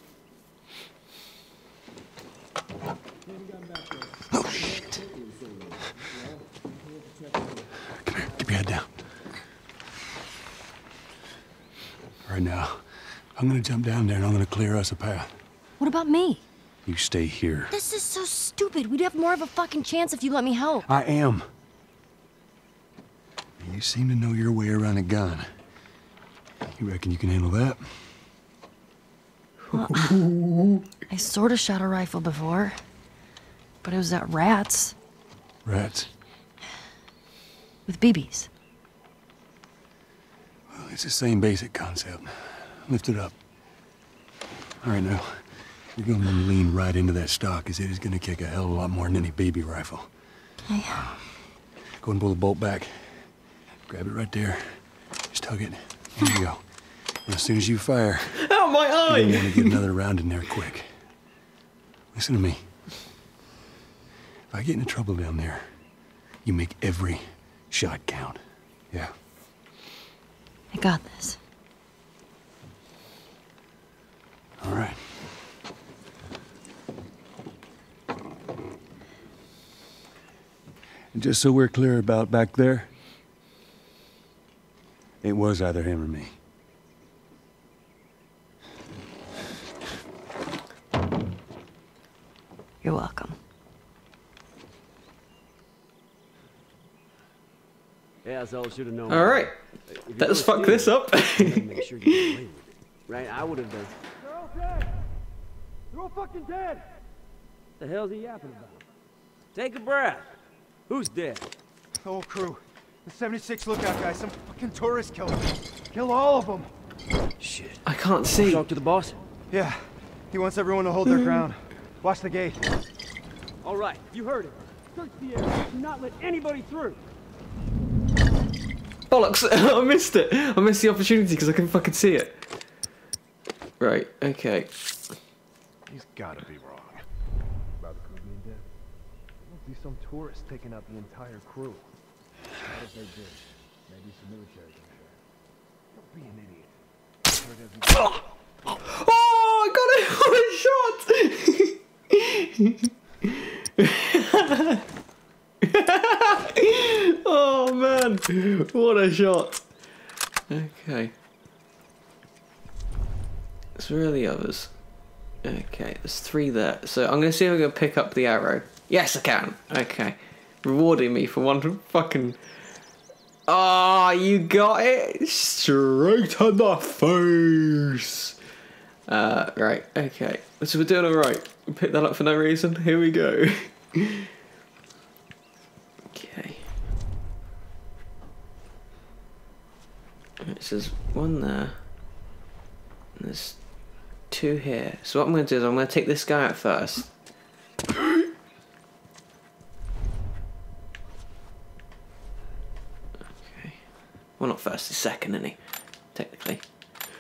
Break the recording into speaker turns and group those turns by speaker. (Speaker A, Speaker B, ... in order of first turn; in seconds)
Speaker A: 4.3-5.0, 7.9-8.9, 12.2-12.8, 13.3-15.3, 16.9-17.7, 20.9-21.5, 23.6-25.5, 26.6-28.1, 35.6-36.1, 40.7-43.4, 44.8-50.1, 52.0-53.3, 53.9-56.6, 57.2-58.4, 59.1-60.9, 62.1-62.6, 64.5-65.7, 66.4-68.4, 74.6-75.0, 81.1-82.9, 85.2-86.3
Speaker B: 15.8-16.4, 17.7-20.9, 29.7-30.2, 31.1-32.8, 33.8-35.0, 37.9-38.5, 50.7-51.1, 70.7-71.4, 92.8-93.4
Speaker C: 29.7-30.9, 58.4-59.8, 99.1-99.5, 100.2-102.4, 117.8-118.7, 129.1-132.4, 133.8-134.7, 148.8-154.8, 155.6-159.6, 160.5-161.1, 163.8-164.7, 165.4-172.4, 173.5-178.3, 179.1-184.3, 186.1-186.6, 190.4-191.8, 193.2-193.6, 194.3-197.1, 203.5-203.8, 204.4-205.6, 206.1-206.6
Speaker D: 98.2-104.0, 107.8-108.8, 109.5-110.4, 110.9-111.5, 117.4-117.8, 118.4-119.2, 123.6-127.0
Speaker E: 104.3-105.0, 105.9-106.9, 112.0-116.7, 119.5-122.7, 135.9-137.0, 137.8-138.6, 139.4-141.9, 142.7-145.1, 145.9-146.7, 147.3-148.2